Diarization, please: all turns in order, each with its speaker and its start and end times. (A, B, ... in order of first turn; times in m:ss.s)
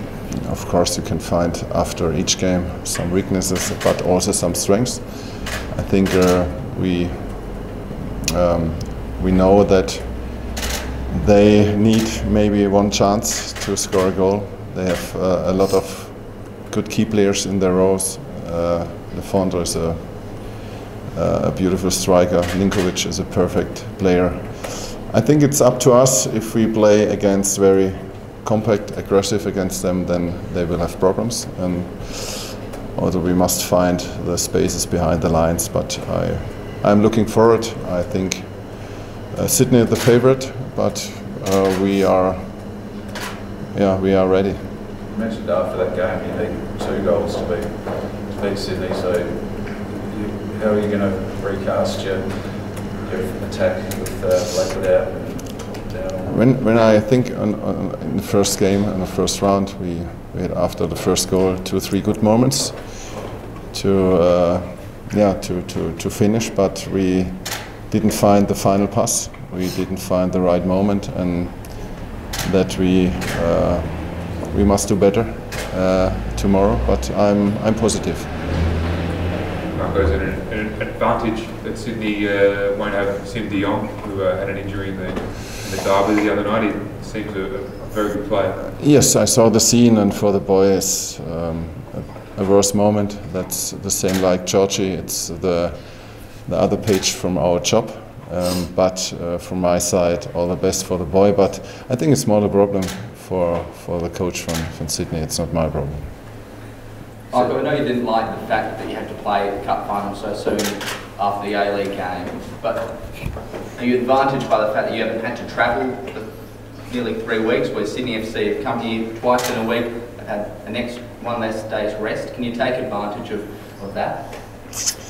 0:00.3-0:42.9 A
0:43.7-0:44.6 A
0:45.1-0:56.6 B
0:56.2-1:18.4 A
1:19.7-1:28.7 C
1:28.7-1:46.2 A
1:47.3-2:04.6 D